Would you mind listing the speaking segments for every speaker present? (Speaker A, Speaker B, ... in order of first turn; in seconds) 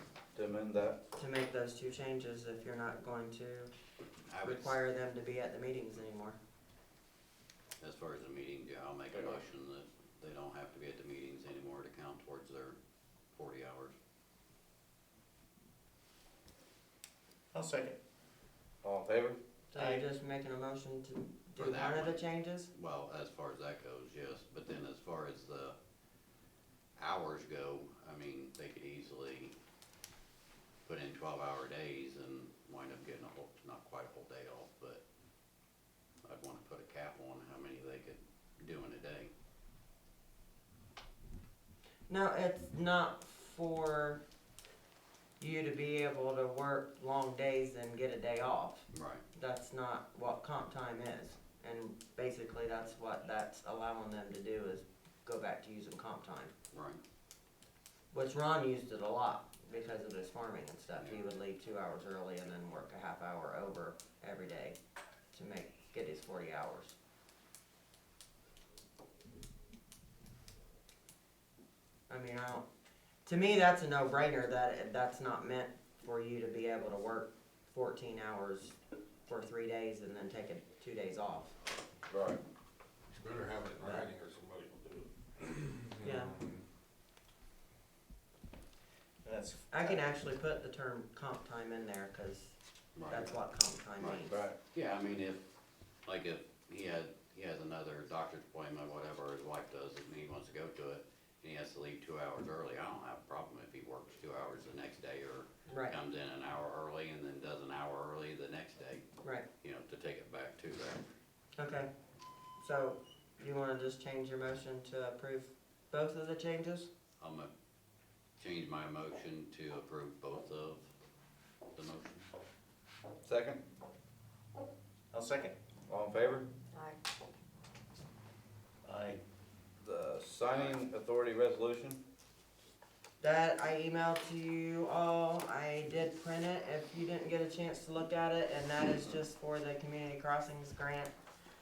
Speaker A: 0.3-1.0, 9.1-9.4, 18.8-19.4, 82.1-82.4, 94.3-94.6, 123.2-123.6, 125.9-126.5, 129.8-132.0
Speaker B: 1.1-3.7, 4.4-6.4, 19.7-22.7, 42.1-44.2, 45.4-56.5, 58.1-64.8, 65.3-66.9, 72.1-72.7, 73.2-81.5, 86.0-86.3, 89.7-94.4, 105.7-106.0, 111.6-111.9, 112.6-116.9, 133.2-141.1
Speaker C: 4.3-4.8, 7.8-12.8, 13.3-13.9, 21.6-22.2, 22.7-25.8, 27.0-29.6, 30.9-35.0, 36.2-39.3, 48.9-49.2, 56.7-57.0, 93.0-93.3, 94.0-95.4, 96.0-109.0, 109.6-111.0, 117.2-117.5, 118.4-120.9, 121.7-122.2
Speaker D: 17.5-18.0, 19.7-20.0, 89.2-90.0, 125.1-125.5, 128.8-129.2
Speaker E: 83.1-86.6